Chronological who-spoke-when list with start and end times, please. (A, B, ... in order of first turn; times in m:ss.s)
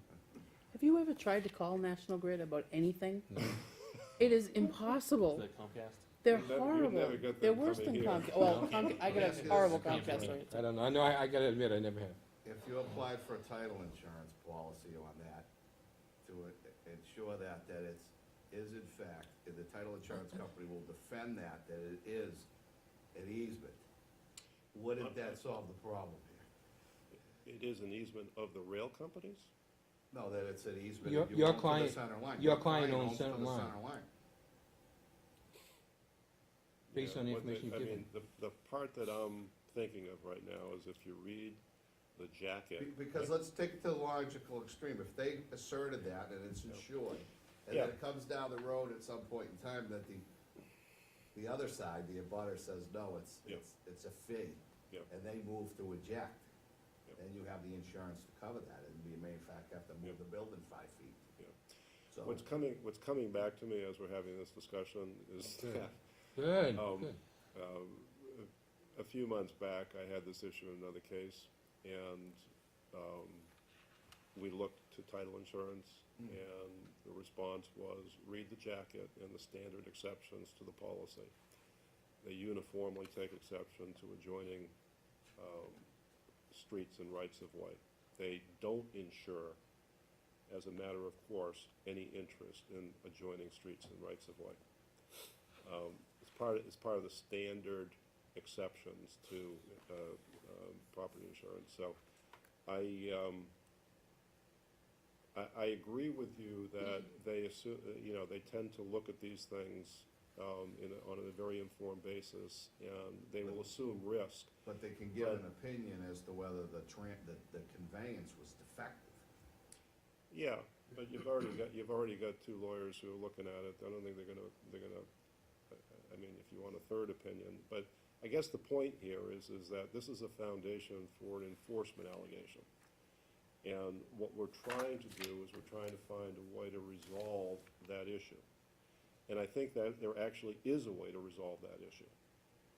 0:00.7-0:03.4 A
0:03.3-0:03.6 B
0:04.2-0:05.5 A
0:05.3-0:06.2 C
0:06.2-0:10.5 A
0:06.2-0:10.3 D
0:08.5-0:10.6 C
0:08.6-0:10.4 E
0:10.1-0:12.2 B
0:12.4-0:15.5 E
0:16.2-0:22.5 E
0:23.1-0:23.8 E
0:24.7-0:26.5 E
0:25.0-0:25.4 D
0:27.4-0:29.5 D
0:30.1-0:34.1 E
0:31.0-0:33.7 B
0:36.9-0:41.6 D
0:36.9-0:38.0 B
0:42.2-0:43.3 D
0:42.8-0:50.2 E
0:51.3-0:56.5 E
0:57.2-1:01.2 E
1:02.1-1:02.4 E
1:02.2-1:06.0 D
1:05.6-1:07.2 B
1:06.7-1:13.5 D
1:14.3-1:21.3 D
1:22.2-1:24.7 D
1:25.4-1:25.9 D
1:26.5-1:29.6 D
1:30.5-1:34.6 D
1:35.6-1:42.0 D
1:42.7-1:43.5 D
1:45.3-1:54.5 D
1:54.6-1:59.2 E
1:55.2-1:55.4 D
2:00.3-2:05.0 D
2:05.7-2:12.7 D
2:13.6-2:18.4 D
2:19.3-2:22.1 D